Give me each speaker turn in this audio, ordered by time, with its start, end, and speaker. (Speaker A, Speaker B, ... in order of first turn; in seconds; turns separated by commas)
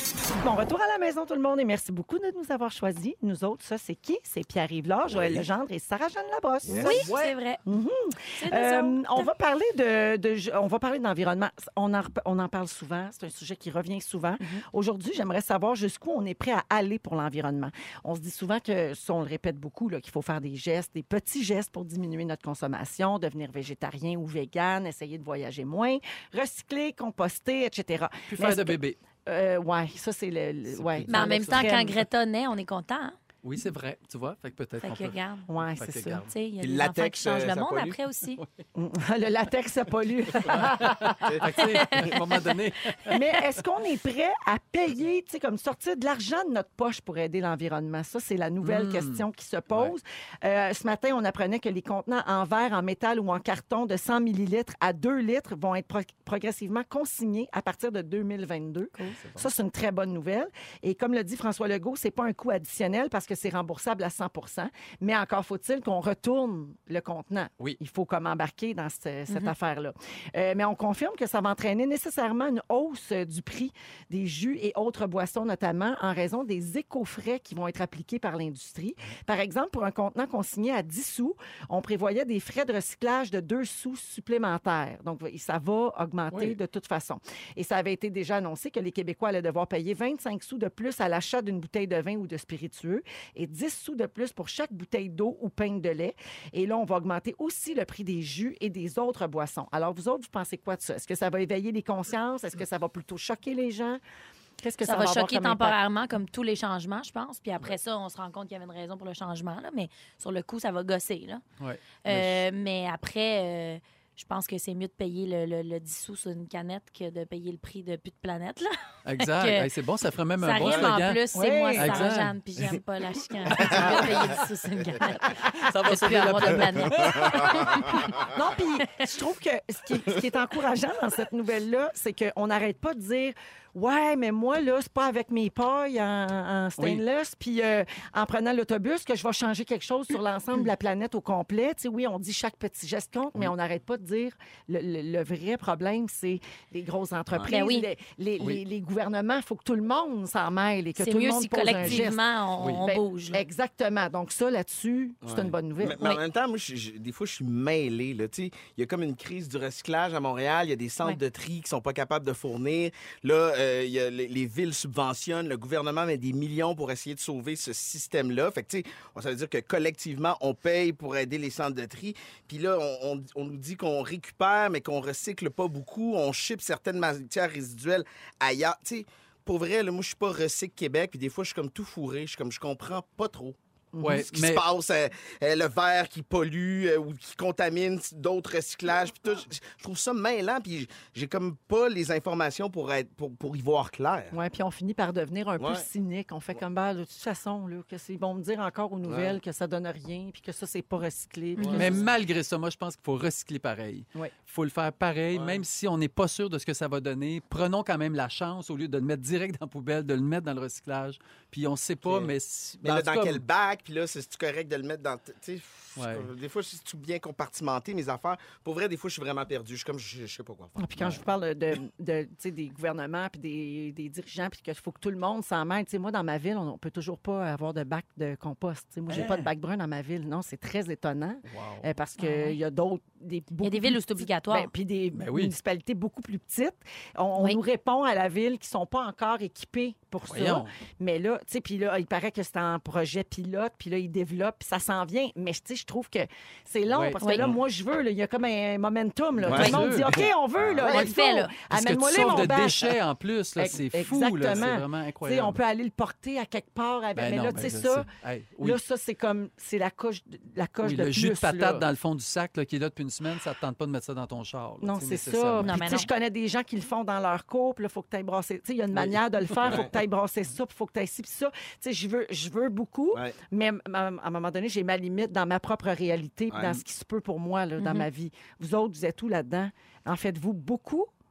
Speaker A: 0.3-32.0, Speaker B: 5.1-5.5, Speaker B: 6.6-7.2, Speaker C: 6.8-7.6, Speaker C: 8.4-9.3, Speaker D: 28.3-29.0, Speaker D: 30.8-31.6, Speaker C: 31.1-33.2, Speaker D: 33.4-36.3, Speaker C: 34.8-35.5, Speaker A: 35.5-36.2, Speaker C: 36.2-38.4, Speaker B: 36.6-38.0, Speaker A: 38.7-41.1, Speaker D: 40.4-43.2, Speaker B: 41.2-41.4, Speaker C: 41.5-43.2, Speaker A: 43.1-104.0, Speaker D: 48.6-49.9, Speaker D: 59.2-59.5, Speaker D: 86.3-86.6, Speaker A: 104.6-105.8, Speaker C: 104.8-111.4, Speaker D: 111.6-112.4, Speaker C: 112.0-119.7, Speaker D: 119.0-121.2, Speaker C: 120.4-128.1, Speaker A: 121.3-122.1, Speaker D: 121.8-122.3, Speaker D: 123.5-124.4, Speaker D: 125.4-127.9, Speaker A: 127.9-152.2, Speaker C: 147.5-147.9, Speaker C: 150.9-153.4, Speaker A: 152.8-156.0, Speaker B: 155.2-183.6, Speaker A: 183.9-184.3, Speaker D: 184.0-184.6, Speaker B: 184.1-194.3, Speaker A: 194.3-202.0, Speaker B: 195.6-195.8, Speaker B: 199.1-199.4, Speaker B: 201.6-202.0, Speaker D: 201.7-213.4, Speaker B: 205.3-205.6, Speaker B: 212.0-221.2, Speaker D: 216.0-216.3, Speaker A: 220.8-252.9, Speaker D: 229.1-229.5, Speaker D: 231.5-231.8, Speaker C: 232.2-232.6, Speaker C: 233.6-234.7, Speaker D: 235.1-235.5, Speaker D: 240.3-240.7, Speaker D: 246.9-247.2, Speaker D: 249.4-250.2, Speaker B: 249.4-251.1, Speaker C: 250.8-251.5, Speaker D: 251.7-255.6, Speaker A: 253.6-258.1, Speaker D: 257.1-258.8, Speaker A: 258.6-261.8, Speaker D: 260.8-265.7, Speaker A: 264.8-281.1, Speaker C: 265.6-266.1, Speaker D: 268.9-269.9, Speaker B: 269.6-269.9, Speaker B: 276.5-276.8, Speaker C: 277.8-278.1